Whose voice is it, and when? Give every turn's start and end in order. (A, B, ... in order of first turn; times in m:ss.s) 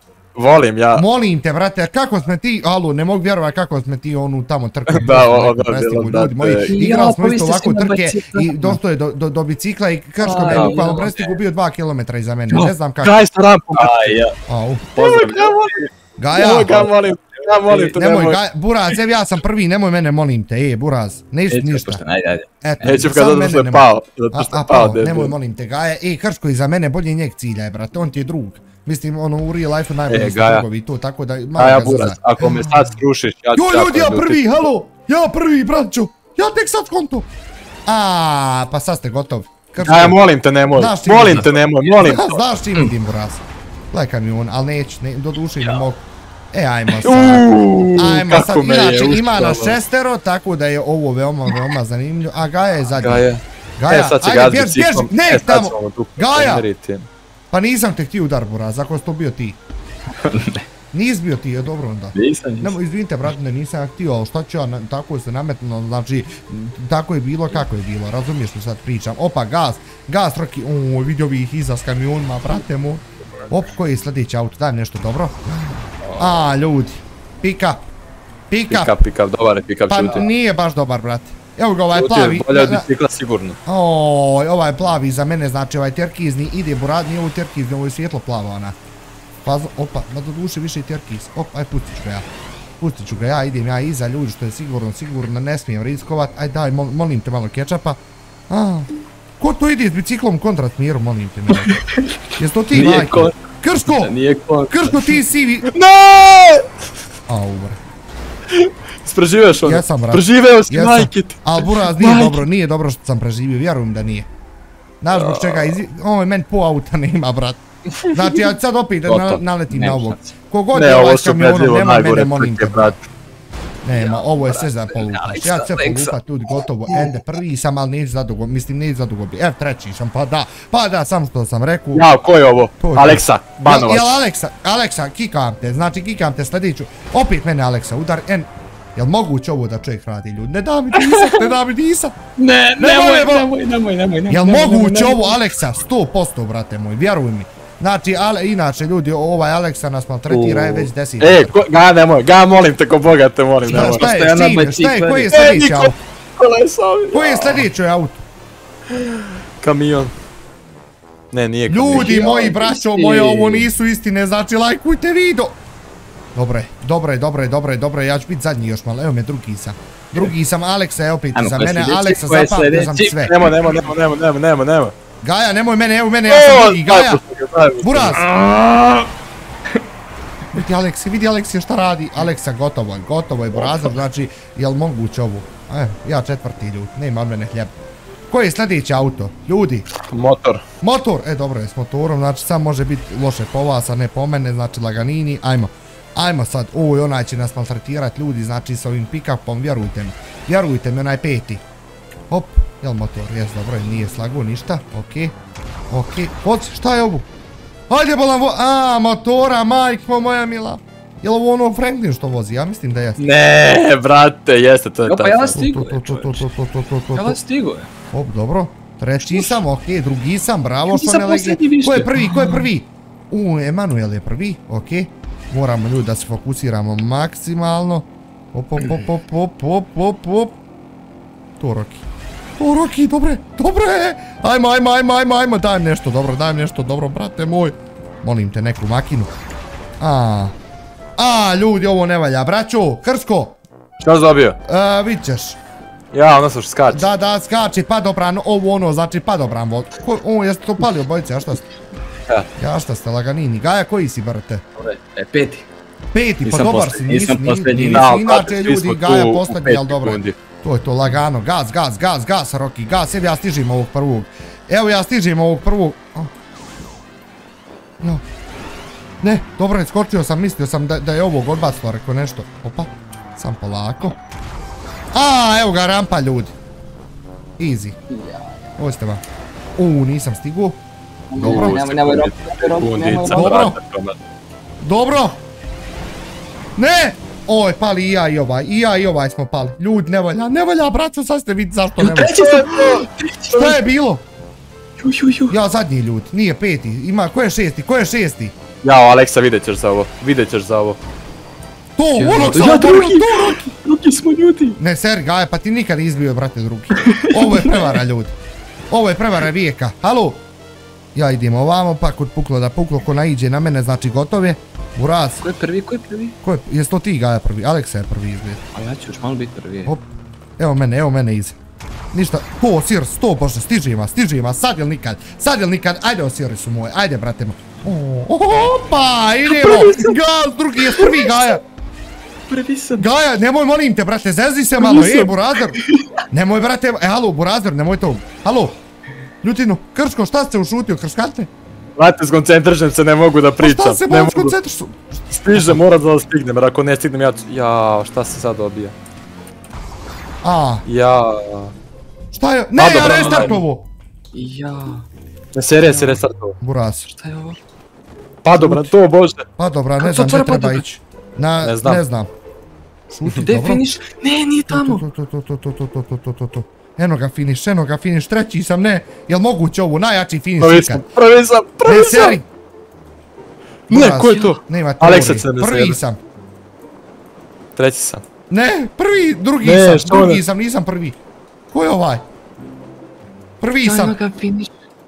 0:00.4-0:01.0 A
0:01.0-0:13.2 B
0:04.9-0:06.8 A
0:06.7-0:08.8 C
0:10.2-0:11.4 C
0:10.3-0:10.9 A
0:13.0-0:14.2 A
0:13.7-0:14.4 C
0:14.5-0:14.9 B
0:14.9-0:15.6 C
0:15.0-0:15.8 A
0:16.2-0:16.9 B
0:16.3-0:18.4 A
0:16.4-0:16.9 C
0:17.9-0:22.0 B
0:21.5-0:23.0 C
0:22.6-0:32.9 B
0:22.8-0:25.3 A
0:30.1-0:30.7 A
0:31.6-0:34.7 A
0:33.6-0:37.3 B
0:37.9-0:40.2 B
0:39.8-0:42.4 A
0:40.7-0:53.3 B
0:47.0-0:49.8 A
0:53.0-0:57.1 A
0:53.8-0:56.7 B
0:57.5-0:59.6 B
1:00.2-1:00.6 C
1:00.9-1:17.8 B
1:02.2-1:02.8 C
1:16.1-1:16.4 A
1:18.5-1:18.9 B
1:18.7-1:20.3 A
1:19.9-1:22.9 B
1:21.9-1:23.6 A
1:23.7-1:28.8 B
1:29.4-1:32.3 B
1:32.8-1:38.9 B
1:39.4-1:41.8 B
1:42.4-1:44.1 B
1:42.7-1:43.4 C
1:43.9-1:45.2 C
1:44.7-1:45.7 B
1:45.7-1:46.7 A
1:47.3-1:47.8 B
1:48.5-1:52.4 A
1:49.6-1:54.3 B
1:55.0-2:03.0 B
1:55.1-1:55.8 A
1:58.0-1:58.4 A
1:59.1-1:59.4 A
1:59.7-2:00.3 C
2:00.7-2:03.0 A
2:03.8-2:12.1 B
2:03.9-2:06.3 C
2:06.9-2:07.1 C
2:11.9-2:14.2 A
2:12.8-2:22.1 B
2:20.9-2:21.5 C
2:22.4-2:25.4 C
2:22.8-2:23.5 B
2:24.3-2:31.6 B
2:30.3-2:34.1 A
2:33.6-2:35.4 C
2:33.7-2:36.0 B
2:35.3-2:37.7 A
2:37.1-2:38.2 B
2:38.9-2:40.1 A
2:41.3-2:42.2 A
2:41.7-2:45.6 B
2:41.9-2:43.7 C
2:46.4-2:53.3 B
2:51.4-2:53.2 C
2:53.3-2:54.9 A
2:55.2-2:57.2 B
2:56.3-2:58.3 A
2:57.8-2:58.2 B
2:58.3-2:59.1 C
3:00.5-3:07.7 B
3:08.3-3:09.9 B
3:10.1-3:10.6 A
3:10.8-3:21.6 B
3:22.3-3:25.3 B
3:25.9-3:27.3 B
3:27.9-3:33.2 B
3:33.2-3:35.6 A
3:35.1-3:36.5 C
3:35.5-3:37.4 B
3:37.1-3:37.9 C
3:38.1-3:50.6 B
3:39.2-3:39.6 C
3:40.9-3:42.7 C
3:51.6-3:52.0 B
3:52.6-3:59.3 B
4:00.0-4:00.5 B
4:01.2-4:03.6 B
4:04.0-4:04.6 A
4:04.7-4:05.6 B
4:06.1-4:07.1 A
4:06.9-4:11.6 B
4:12.6-4:14.6 B
4:14.8-4:15.7 C
4:16.1-4:26.3 B
4:16.4-4:18.2 C
4:17.9-4:20.4 A
4:29.2-4:34.2 B
4:35.1-4:36.5 B
4:37.6-4:38.0 B
4:38.1-4:38.5 C
4:38.8-4:39.2 B
4:39.8-4:40.8 B
4:41.3-4:43.6 C
4:41.3-4:41.8 B
4:41.4-4:44.2 A
4:43.3-4:43.8 B
4:44.8-4:45.4 B
4:46.8-4:52.4 B
4:52.0-4:53.9 C
4:52.3-4:53.1 A
4:53.5-4:54.2 B
4:55.0-4:55.6 C
4:55.5-4:58.5 B
4:58.8-5:01.0 A
5:02.0-5:03.6 B
5:02.2-5:02.7 A
5:02.4-5:04.8 C
5:04.8-5:08.4 B
5:07.0-5:08.0 C
5:08.9-5:10.4 B
5:11.2-5:15.4 B
5:15.4-5:16.4 C
5:16.4-5:18.6 B
5:18.8-5:20.0 C
5:20.6-5:21.6 B
5:22.1-5:31.6 B
5:29.5-5:30.2 C
5:31.0-5:31.3 C
5:32.5-5:33.0 C
5:33.0-5:38.8 B
5:34.8-5:35.3 C
5:39.4-5:41.5 B
5:42.0-5:44.6 A
5:43.6-5:45.8 B
5:45.3-5:48.9 A
5:50.4-5:50.8 B
5:50.8-5:51.7 A
5:52.3-5:53.9 B
5:52.8-5:53.6 A
5:52.9-5:53.6 C
5:54.3-5:55.1 C
5:55.5-5:56.6 A
5:55.8-5:56.2 C
5:56.6-5:57.1 B
5:57.1-5:57.6 C
5:58.4-5:59.4 A
5:58.5-5:58.9 B
5:59.6-6:02.3 B
6:00.0-6:00.8 C
6:01.6-6:02.0 A
6:03.1-6:03.9 B
6:03.4-6:05.0 C
6:04.7-6:11.0 B
6:10.6-6:12.4 A
6:11.8-6:12.4 B
6:13.9-6:16.2 B
6:13.9-6:16.0 A
6:17.8-6:18.2 A
6:18.5-6:21.2 B
6:19.6-6:20.4 A
6:21.7-6:22.2 B
6:23.6-6:24.2 B
6:23.8-6:24.7 C